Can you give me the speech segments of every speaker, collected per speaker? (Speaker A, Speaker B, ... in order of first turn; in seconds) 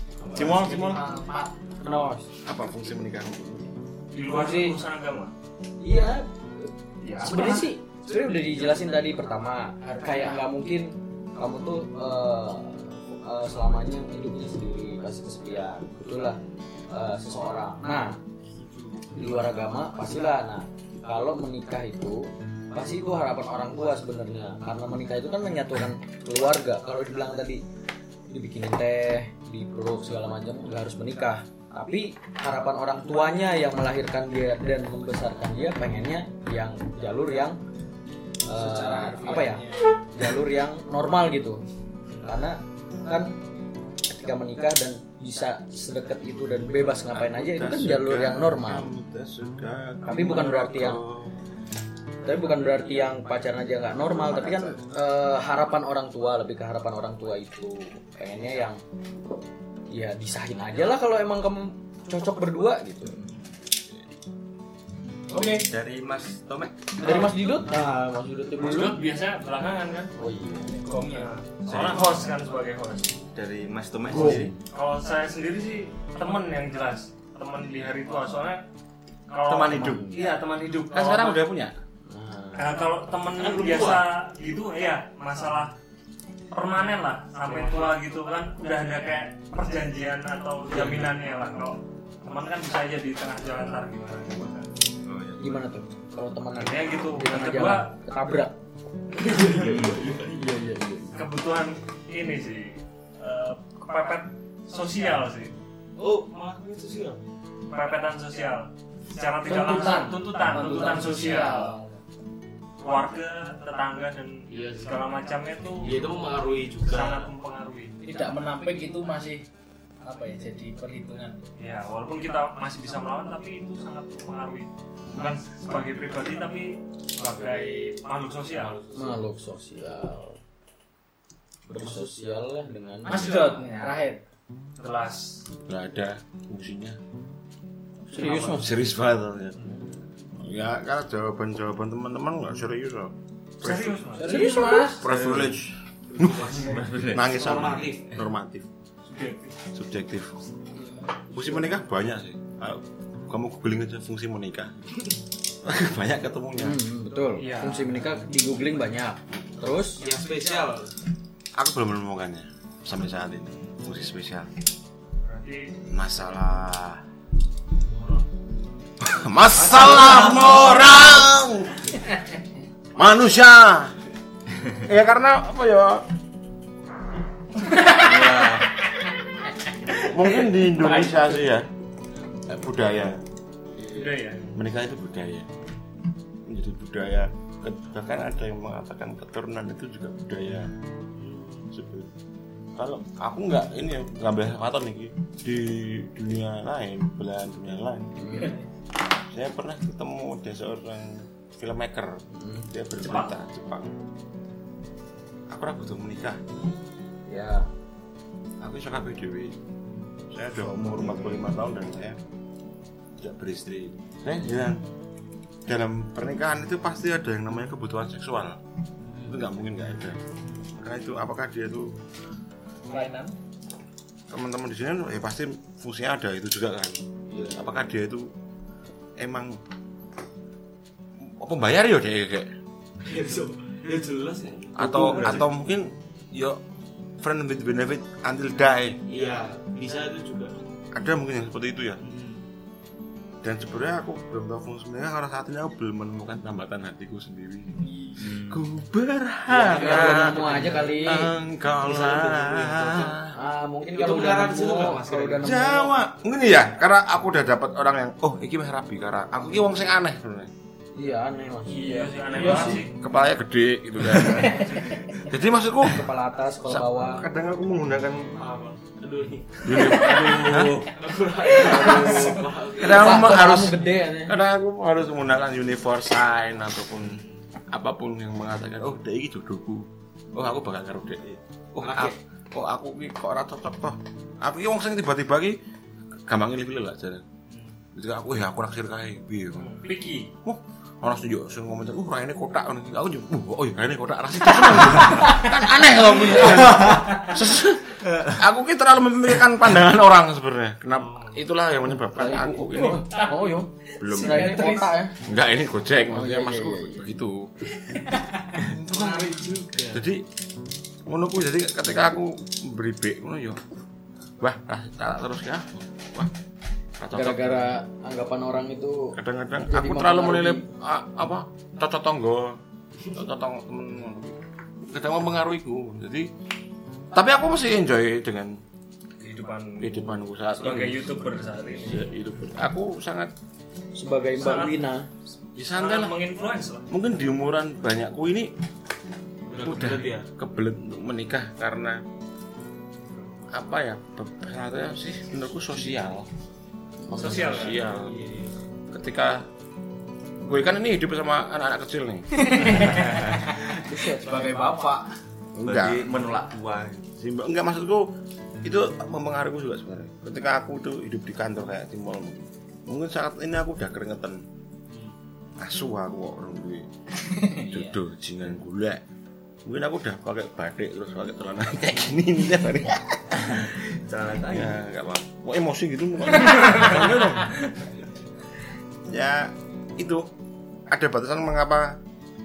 Speaker A: 0.2-1.5, 7.0-7.7, 9.8-10.4, 38.5-39.9, 65.3-65.7, 70.7-71.3, 109.5-112.0, 118.0-119.4, 120.0-121.5, 133.1-134.2, 144.2-145.1, 150.7-151.1, 222.9-223.3, 352.4-355.1, 367.6-367.9
Speaker B: 0.3-1.0, 2.4-3.7, 47.1-51.4, 54.0-54.8, 71.7-72.1, 74.2-74.5, 79.5-80.2, 80.9-81.7, 135.7-137.0, 138.5-139.7, 140.3-144.1, 144.9-148.7, 149.7-150.3, 151.3-155.1, 155.6-156.8, 161.6-164.5, 165.9-167.0, 169.0-171.9, 172.9-173.9, 174.7-176.0, 179.9-181.7, 182.5-183.2, 184.5-185.5, 186.4-190.7, 191.7-192.1, 192.8-198.5, 199.3-203.9, 205.5-206.4, 208.6-209.6, 210.3-212.2, 213.2-214.8, 215.7-218.6, 219.2-220.2, 220.8-222.0, 224.3-228.3, 229.2-229.6, 231.4-232.5, 234.8-236.6, 237.2-239.0, 240.9-242.0, 243.4-253.3, 255.4-260.5, 262.9-266.1, 266.7-268.3, 269.6-270.9, 271.6-285.6, 286.3-287.2, 287.9-289.8, 290.4-303.1, 304.0-304.7, 305.2-307.7, 308.6-310.2, 311.1-313.6, 314.4-316.3, 317.0-317.4, 319.1-326.3, 327.1-328.6, 329.8-333.3, 335.6-336.1, 336.9-338.5, 339.6-342.0, 343.5-346.3, 347.1-348.1, 348.9-349.4, 350.4-352.3, 355.5-356.0, 357.1-364.4, 365.6-366.9, 367.4-369.0, 369.6-373.8, 374.4-377.7, 379.1-380.3, 380.9-382.0
Speaker C: 1.8-2.3, 4.3-4.7, 5.8-6.3, 7.2-16.4, 16.9-18.2, 19.1-27.6, 28.3-37.6, 38.5-41.6, 42.2-43.4, 44.1-48.9, 50.0-51.0, 52.2-58.8, 59.9-63.2, 67.0-69.0, 70.2-70.8, 74.1-74.5, 79.7-80.2, 82.1-82.7, 95.4-98.5, 100.3-101.2, 128.9-130.4, 131.7-133.5, 138.1-138.7, 144.2-145.0, 156.6-160.0, 198.2-198.6, 202.3-202.7, 207.3-207.7, 249.6-251.3, 253.3-255.9, 260.9-262.8, 265.8-267.2, 271.6-274.4, 302.1-305.1, 306.1-307.0, 317.1-319.1, 319.6-320.6, 333.9-335.1, 353.8-354.7
Speaker D: 4.1-5.3, 68.6-70.1, 71.0-73.2, 74.7-78.6, 79.3-81.4, 82.5-85.7, 86.5-94.7, 96.5-97.9, 101.1-105.5, 107.7-111.8, 112.8-116.1, 116.8-117.9, 121.6-128.9, 134.8-135.4, 138.2-138.6, 143.6-144.6, 149.1-149.6, 157.4-157.9, 165.2-165.7, 183.9-184.6, 203.0-203.3, 261.7-262.9, 289.5-290.3, 329.2-332.1, 334.4-334.8, 335.6-336.9, 347.1-347.9
Speaker E: 65.6-66.9, 73.3-74.5, 95.0-95.6, 99.6-100.0, 146.6-147.3, 177.8-178.8, 235.1-235.4, 248.3-248.6, 296.7-297.1, 355.6-357.1, 373.9-374.8
Speaker F: 83.4-84.0, 87.5-87.8, 99.2-100.5, 106.0-107.2, 114.5-115.0, 115.8-117.3, 146.1-148.2, 160.0-160.9, 167.8-168.2, 191.2-191.7, 219.0-219.3, 233.0-235.5, 239.1-240.5, 242.0-242.4, 249.5-250.8, 251.8-253.1, 253.9-255.5, 268.3-273.5, 277.0-277.3, 281.8-282.1, 287.5-287.7, 300.9-301.4, 308.8-310.1, 339.5-340.3, 347.9-348.6